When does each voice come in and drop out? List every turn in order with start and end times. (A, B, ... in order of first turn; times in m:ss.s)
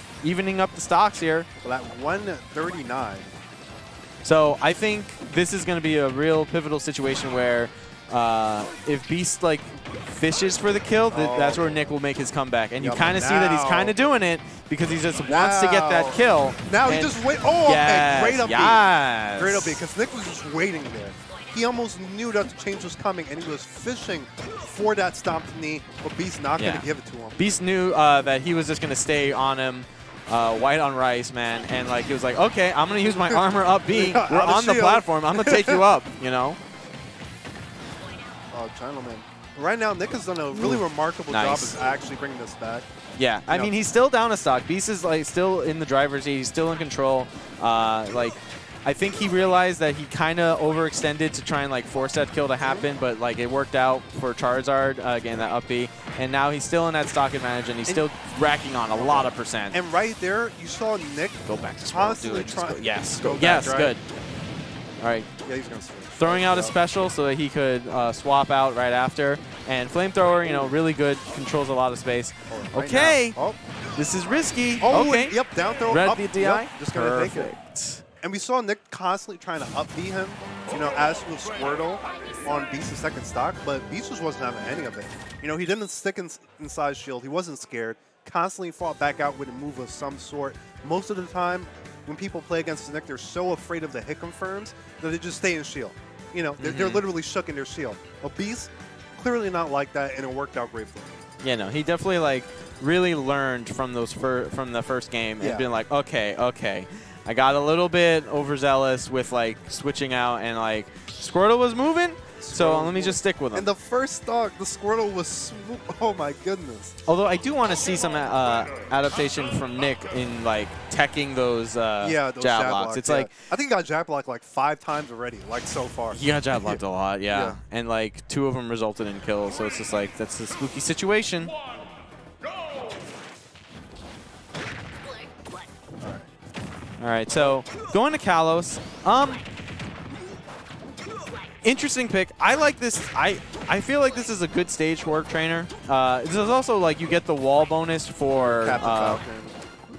0:00.2-0:01.5 A
0:01.6-0:03.3 B
0:04.2-0:19.8 A
0:11.1-0:11.9 B
0:12.8-0:14.0 B
0:15.3-0:27.5 B
0:26.6-0:26.8 A
0:27.4-0:36.6 A
0:33.9-0:35.8 B
0:38.5-0:42.9 B
0:40.5-0:41.8 A
0:43.2-0:59.8 A
0:43.5-0:43.7 B
0:59.0-1:04.0 B
1:01.4-1:04.0 A
1:05.0-1:05.3 A
1:05.4-1:06.8 B
1:06.2-1:13.4 A
1:10.4-1:10.7 B
1:12.5-1:13.6 B
1:14.0-1:15.4 A
1:14.8-1:17.5 B
1:15.9-1:18.0 A
1:18.2-1:41.1 B
1:36.6-1:37.0 A
1:41.4-1:53.7 A
1:45.4-1:45.7 B
1:52.4-1:57.0 B
1:57.0-2:03.3 A
2:02.0-2:07.6 B
2:06.1-2:11.5 A
2:16.0-2:16.3 B
2:17.0-2:19.4 A
2:21.6-2:29.2 A
2:28.4-2:29.6 B